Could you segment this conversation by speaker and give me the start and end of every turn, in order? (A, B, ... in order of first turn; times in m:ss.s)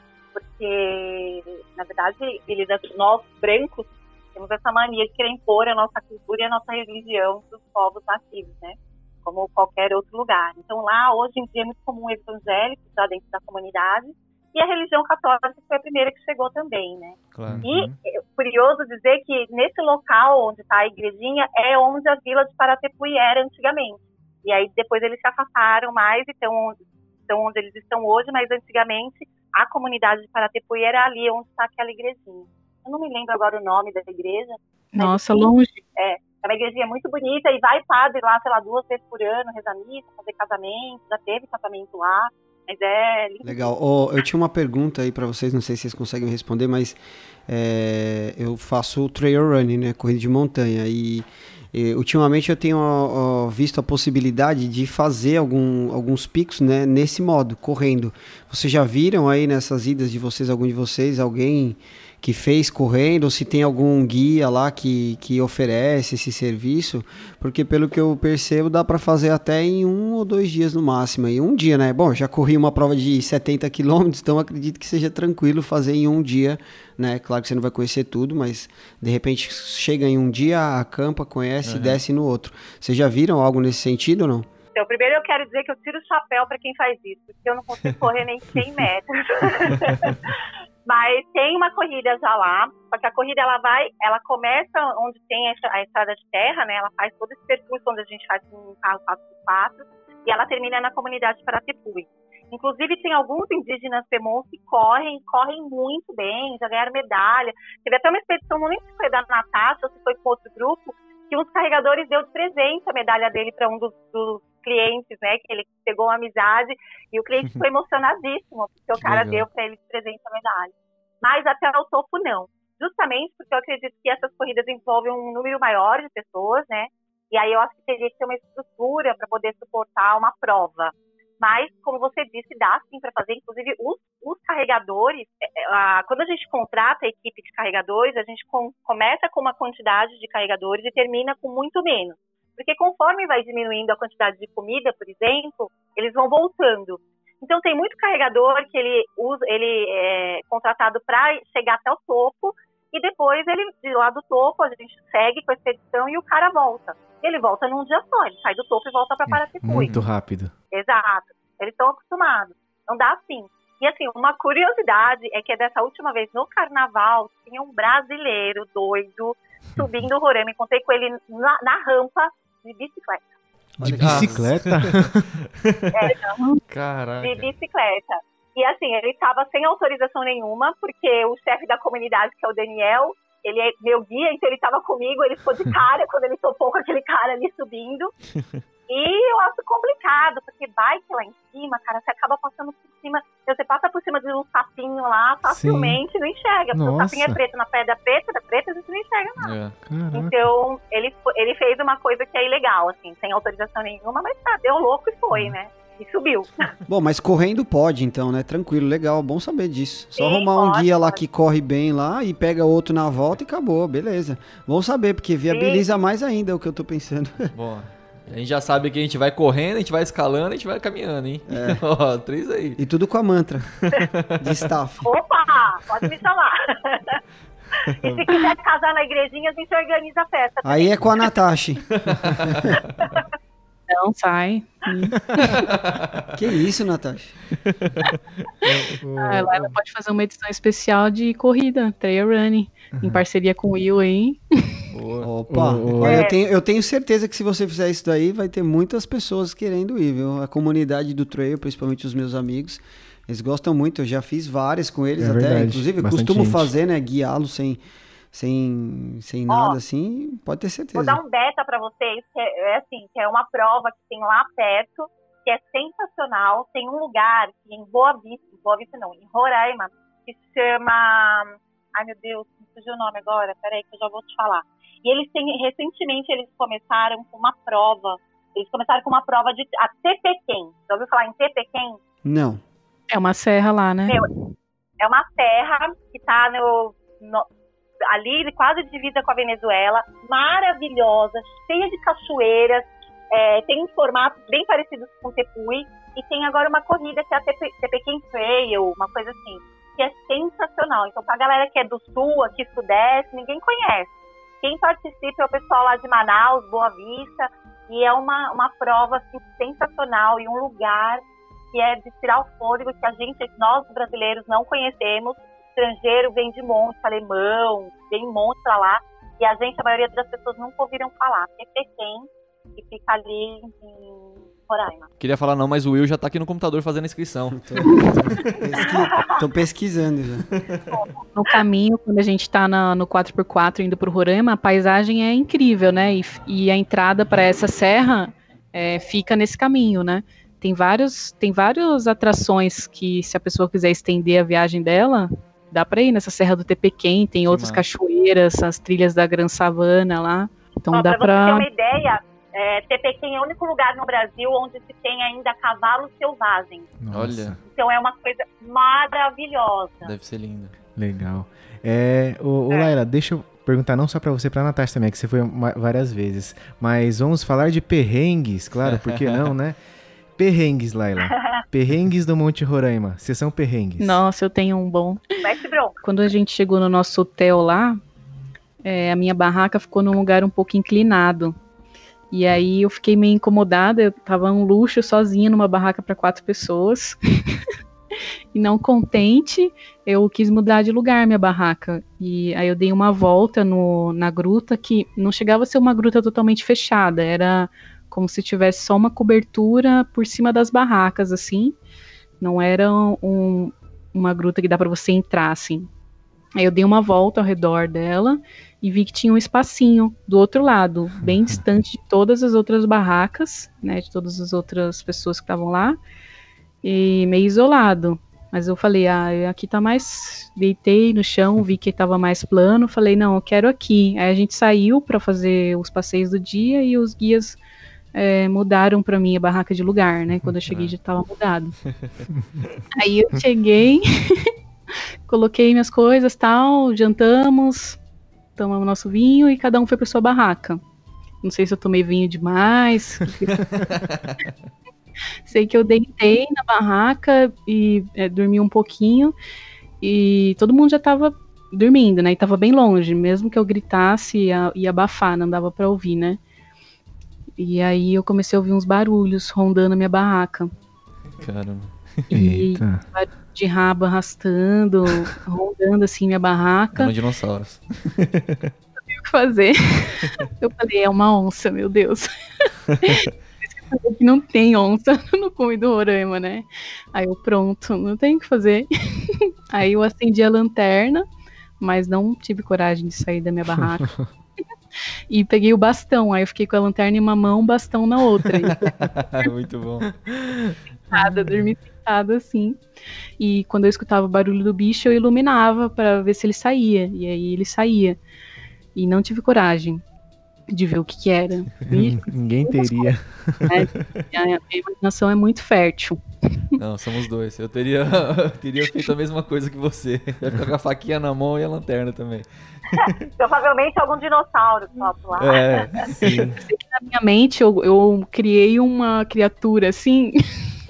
0:00.3-0:43.8 A
0:17.3-0:17.9 B
0:17.4-0:17.8 C
0:34.9-0:35.8 D
0:43.4-1:24.5 E
1:21.6-1:22.0 B
1:24.7-1:30.3 A
1:30.8-2:39.9 A
1:59.0-1:59.4 B
2:39.3-2:40.5 C
2:39.8-2:40.1 B
2:40.7-2:53.2 A
2:53.8-2:55.3 C
2:53.8-2:55.0 B
2:53.8-2:54.5 E
2:55.6-2:55.9 B
2:55.9-2:56.3 A
2:56.3-2:56.6 D
2:56.7-2:57.5 B
2:57.2-3:08.1 A
3:08.9-3:19.5 A
3:15.5-3:16.0 C
3:16.7-3:17.4 C
3:19.4-3:19.8 B
3:19.8-3:20.3 C
3:20.1-3:26.7 A
3:26.9-3:37.5 E
3:30.2-3:31.2 A
3:35.5-3:35.9 A
3:37.5-3:42.8 B
3:41.5-3:41.8 E
3:42.8-3:45.0 E
3:43.8-3:44.6 B
3:45.0-3:47.2 A
3:48.0-3:51.0 A
3:50.6-3:52.8 E
3:52.0-3:53.0 B
3:53.9-3:55.6 D
3:55.5-3:56.3 B
3:56.3-3:57.4 E
3:57.6-3:58.1 B
3:58.6-3:59.8 C
3:59.2-4:04.6 D
4:03.0-4:03.2 C
4:04.9-4:05.3 B
4:05.2-4:17.8 E
4:05.5-4:06.3 C
4:06.0-4:06.4 A
4:15.2-4:16.7 C
4:18.3-4:21.2 E
4:19.5-4:19.8 A
4:20.9-4:42.0 A
4:42.2-4:42.6 E
4:43.1-4:44.2 D
4:45.0-4:47.4 A
4:48.0-5:25.1 A
5:25.2-5:28.5 B
5:27.5-5:30.8 E
5:27.8-5:28.2 D
5:28.8-5:29.3 A
5:30.9-5:51.7 D
5:47.5-5:47.8 B
5:50.9-5:56.9 A
5:57.0-5:57.6 C
5:57.1-5:57.6 B
5:57.6-6:00.1 A
6:00.0-6:00.8 B
6:01.0-6:09.8 C
6:08.8-6:09.5 B
6:10.4-6:14.2 C
6:14.0-6:15.2 D
6:15.4-6:16.0 A
6:16.0-6:18.0 D
6:18.8-6:21.6 D
6:22.3-6:27.6 D
6:28.5-6:41.8 D
6:42.4-6:45.9 D
6:46.6-6:56.0 D
6:56.8-7:07.6 D
7:08.1-7:11.8 D
7:12.9-7:14.5 D
7:15.3-7:18.0 D
7:18.6-7:20.8 D
7:21.4-7:23.8 D
7:23.9-7:24.3 B
7:25.5-7:29.3 D
7:30.0-7:36.4 D
7:37.6-7:40.7 D
7:41.4-7:42.2 B
7:42.3-7:47.1 D
7:42.3-7:43.0 C
7:46.9-7:48.6 B
7:49.1-8:01.2 D
8:01.8-8:04.2 D
8:04.0-8:04.2 C
8:05.3-8:08.8 D
8:08.7-8:10.6 B
8:11.1-8:12.8 D
8:13.4-8:18.2 D
8:18.9-8:20.0 D
8:20.7-8:23.1 D
8:21.9-8:23.8 C
8:23.6-8:26.2 D
8:26.8-8:33.1 B
8:33.0-8:35.9 A
8:35.4-8:36.5 B
8:36.1-8:36.6 C
8:36.6-8:40.7 D